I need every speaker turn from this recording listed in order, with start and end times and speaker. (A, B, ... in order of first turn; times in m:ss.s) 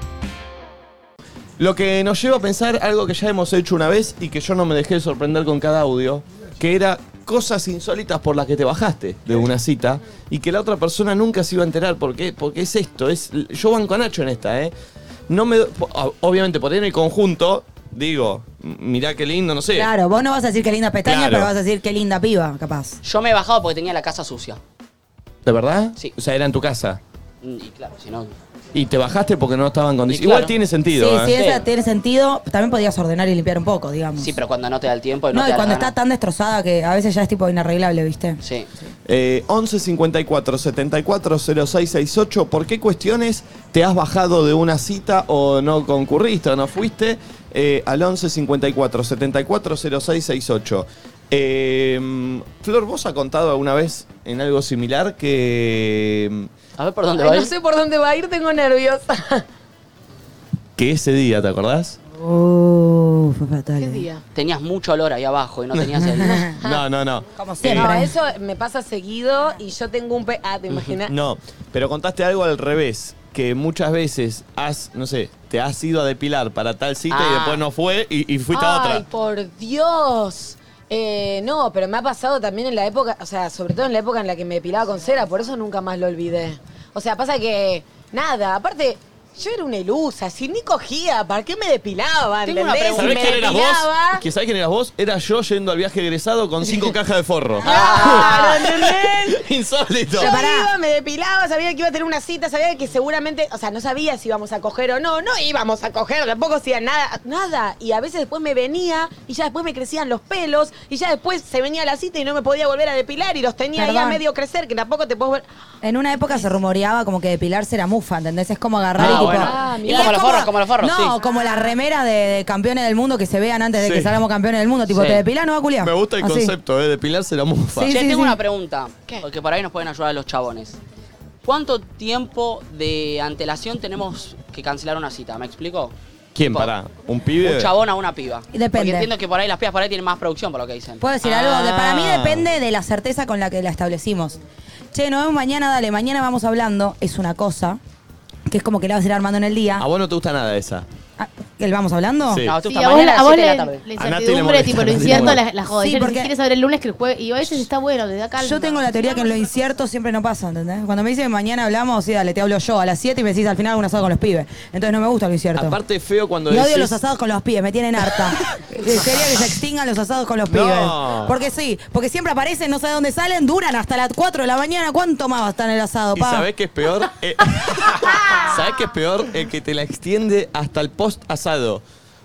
0:01.6-0:14.7 A
0:15.3-0:19.9 A
0:19.7-0:23.0 B
0:21.0-0:21.5 A
0:23.0-0:24.6 C
0:25.4-0:27.0 A
0:27.4-0:28.4 C
0:28.7-0:31.4 A
0:30.1-0:30.6 C
0:30.9-0:34.4 B
0:31.3-0:31.6 C
0:34.2-0:35.9 C
0:35.3-0:38.4 B
0:38.4-0:38.7 C
0:39.1-0:56.5 A
0:56.8-0:57.5 C
0:57.2-0:59.4 D
1:00.8-1:02.0 A
1:02.2-1:04.1 B
1:03.8-1:04.2 D
1:04.3-1:06.3 C
1:06.2-1:06.6 B
1:06.6-1:08.0 A
1:07.4-1:08.1 B
1:07.7-1:11.1 D
1:11.1-1:19.1 A
1:17.1-1:17.6 C
1:18.5-1:34.2 D
1:32.4-1:33.5 C
1:32.9-1:40.4 A
1:37.6-1:39.4 D
1:37.7-1:37.9 C
1:37.9-1:38.3 B
1:40.1-1:40.7 B
1:40.2-1:55.4 D
1:53.8-1:54.2 B
1:55.8-2:06.5 B
1:59.0-2:01.2 C
1:59.0-2:00.5 D
2:03.8-2:04.2 A
2:04.9-2:05.2 C
2:05.8-2:07.9 A
2:07.7-2:08.4 B
2:07.9-2:10.8 C
2:11.4-2:16.0 C
2:16.4-2:17.7 A
2:17.4-2:21.8 C
2:18.5-2:19.1 B
2:21.0-2:24.4 B
2:21.4-2:22.5 A
2:24.9-2:27.8 B
2:28.5-2:29.9 B
2:29.8-2:30.9 A
2:31.2-2:32.4 B
2:32.5-2:33.8 C
2:32.6-2:39.1 E
2:34.0-2:35.4 A
2:35.2-2:36.3 B
2:38.4-2:45.8 B
2:45.6-2:47.0 A
2:46.5-2:56.5 B
2:50.5-2:51.4 A
2:56.2-3:01.8 A